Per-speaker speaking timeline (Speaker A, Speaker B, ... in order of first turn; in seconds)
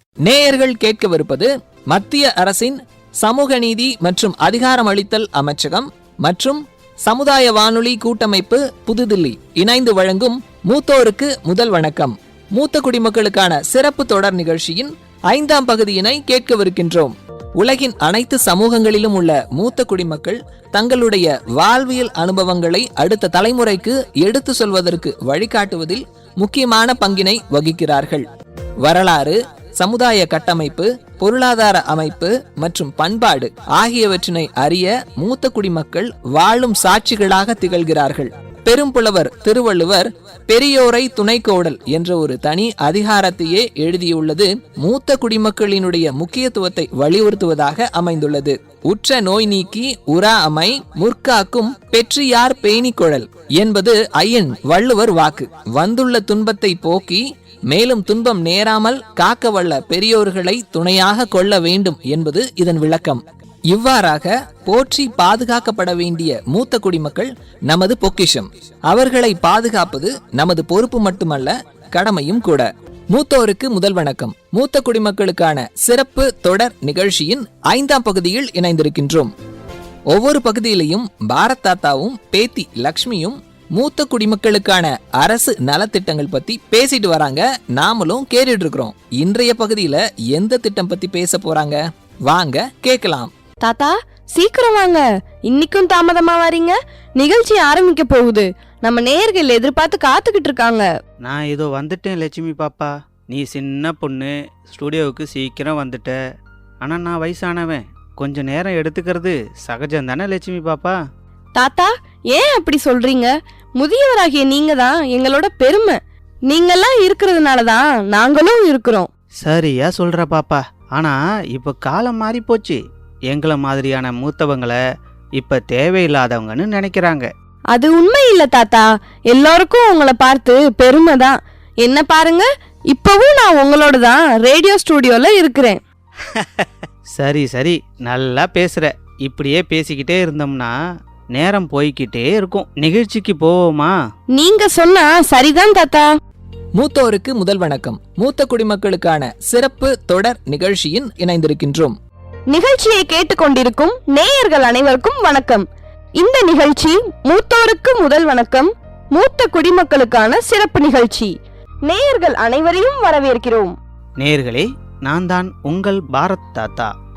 Speaker A: 0.2-28.3, 28.8-79.3, 80.1-93.3, 146.8-151.9
Speaker B: 93.6-100.9, 111.6-116.0, 116.5-119.1, 127.7-135.8, 144.3-146.1, 152.5-155.7, 156.2-161.3, 161.8-163.7
Speaker C: 101.2-106.1, 106.8-111.0, 119.4-122.8, 123.3-124.8, 125.4-127.3, 137.2-140.7, 141.3-143.9, 164.2-166.9